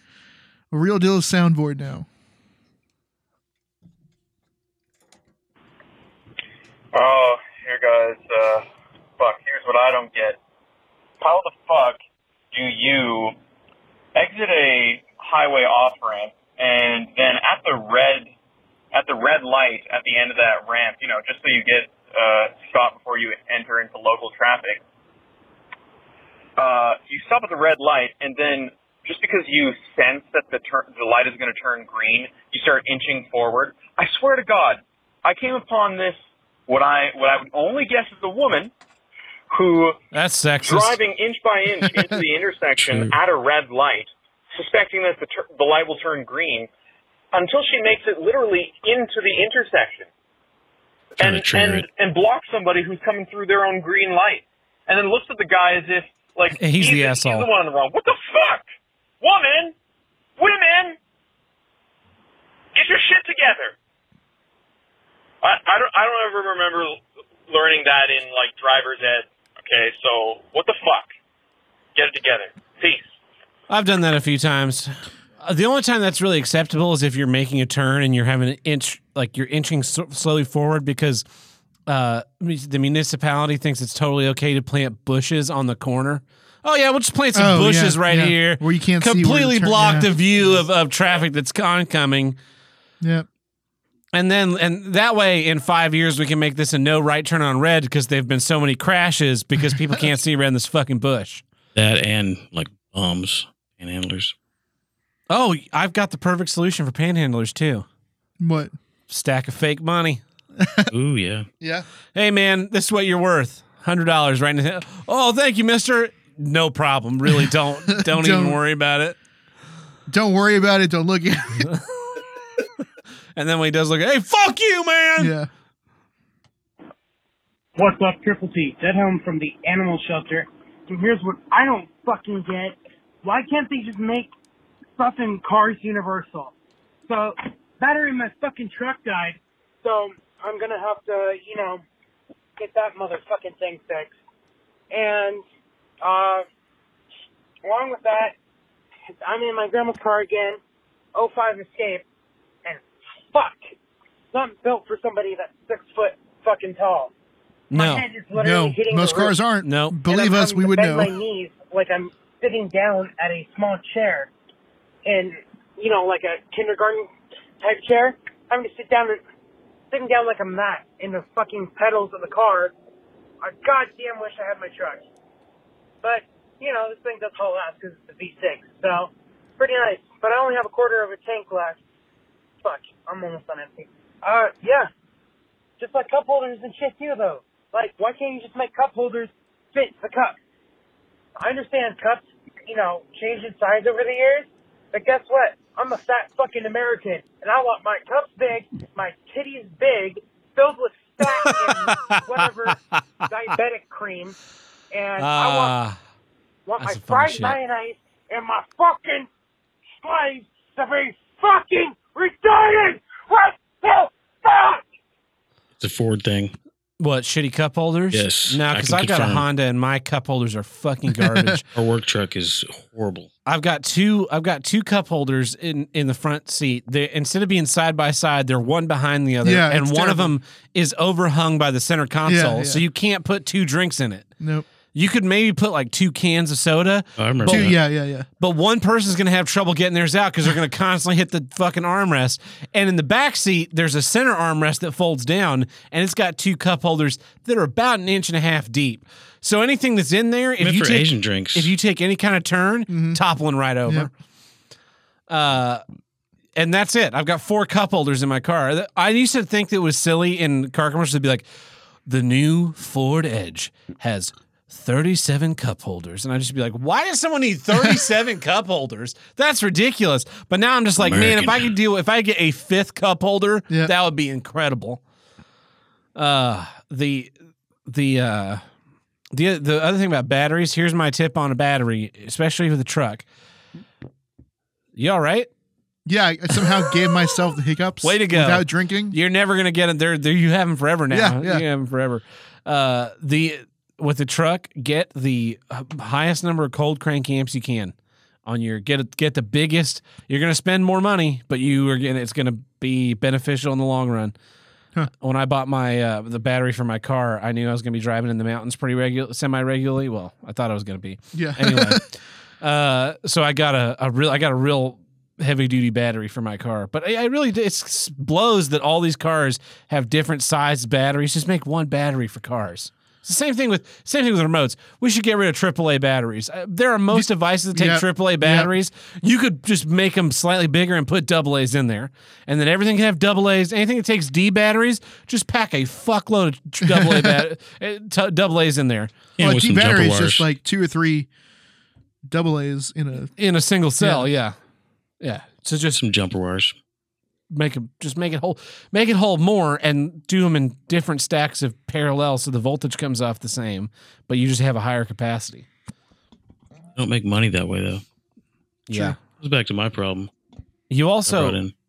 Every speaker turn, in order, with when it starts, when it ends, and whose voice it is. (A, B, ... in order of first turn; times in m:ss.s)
0:00.7-0:02.1 A
0:06.9-0:08.6 B
0:09.2-0:10.4 B
0:11.2-0:12.0 B
0:12.5-0:13.4 B
0:14.2-0:18.3 B
0:18.9-0:24.8 B
0:26.6-0:36.2 B
0:36.7-0:38.7 B
0:39.5-0:40.0 B
0:40.1-0:41.0 C
0:40.6-0:46.7 B
0:42.8-0:43.1 D
0:47.3-0:50.1 B
0:51.2-0:58.7 B
0:51.2-0:51.9 D
0:56.6-0:57.5 C
0:59.2-0:59.7 B
1:00.4-1:01.0 B
1:02.8-1:03.8 B
1:05.4-1:11.1 B
1:12.0-1:13.1 B
1:13.7-1:21.2 C
1:21.9-1:32.4 C
1:27.4-1:30.1 A
1:33.0-1:33.3 A
1:34.1-1:41.4 C
1:41.8-1:44.3 D
1:45.3-1:47.8 C
1:48.4-1:48.7 A
1:49.1-1:50.2 C
1:50.6-1:50.9 A
1:50.9-1:51.5 D
1:51.6-1:51.9 A
1:52.2-1:59.2 C
1:57.9-1:58.6 A
2:00.1-2:01.8 A
2:03.4-2:05.3 C
2:05.2-2:05.5 A
2:07.8-2:14.3 E
2:15.0-2:16.5 E
2:17.1-2:21.8 E
2:22.6-2:24.2 E
2:24.9-2:25.4 E
2:26.0-2:26.4 E
2:27.6-2:28.4 E
2:29.2-2:30.6 E
2:31.2-2:32.0 E
2:32.6-2:33.6 E
2:34.3-2:37.1 E
2:37.7-2:38.1 C
2:37.7-2:39.4 E
2:38.3-2:41.1 A
2:39.6-2:40.0 C
2:40.1-2:44.3 E
2:45.0-2:49.2 E
2:49.9-2:52.8 E
2:53.4-2:55.1 E
2:56.0-3:01.8 E
3:02.6-3:04.9 E
3:05.8-3:10.4 E
3:11.4-3:24.4 E
3:21.2-3:23.0 C
3:24.9-3:25.8 E
3:25.2-3:26.0 C
3:26.7-3:29.3 E
3:26.8-3:27.6 C
3:30.0-3:34.8 E
3:35.8-3:36.5 D
3:37.0-3:41.6 C
3:38.1-3:39.5 D
3:41.2-3:41.5 A
3:41.7-3:43.3 D
3:43.4-3:54.3 C
3:49.4-3:50.4 A
3:52.3-3:52.8 A
3:54.4-3:54.7 A
3:54.9-3:57.8 C
3:57.2-3:57.8 D
3:57.5-3:58.3 A
3:58.4-4:14.1 C
4:10.6-4:11.7 D
4:12.9-4:13.2 A
4:15.3-4:15.8 C
4:16.6-4:21.4 C
4:22.1-4:35.0 C
4:31.0-4:31.8 D
4:36.2-4:37.3 C
4:37.9-4:38.6 C
4:39.3-4:43.2 C
4:45.0-4:45.5 C
4:46.1-4:49.2 A
4:48.0-4:58.0 C
4:51.1-4:51.6 A
4:58.5-5:04.3 C
5:05.1-5:12.1 C
5:11.3-5:12.1 A
5:12.6-5:39.1 C
5:27.1-5:28.7 A
5:36.8-5:37.4 A
5:39.4-5:40.5 D
5:39.4-5:41.3 A
5:42.2-5:43.3 A
5:43.4-5:44.6 C
5:44.0-5:44.3 A
5:45.2-5:46.0 C
5:46.0-5:46.8 D
5:47.5-5:55.7 C
5:57.0-5:58.0 D
5:58.9-5:59.2 C
5:58.9-5:59.2 A
5:59.2-6:00.3 D
6:00.9-6:01.6 C
6:01.3-6:01.7 D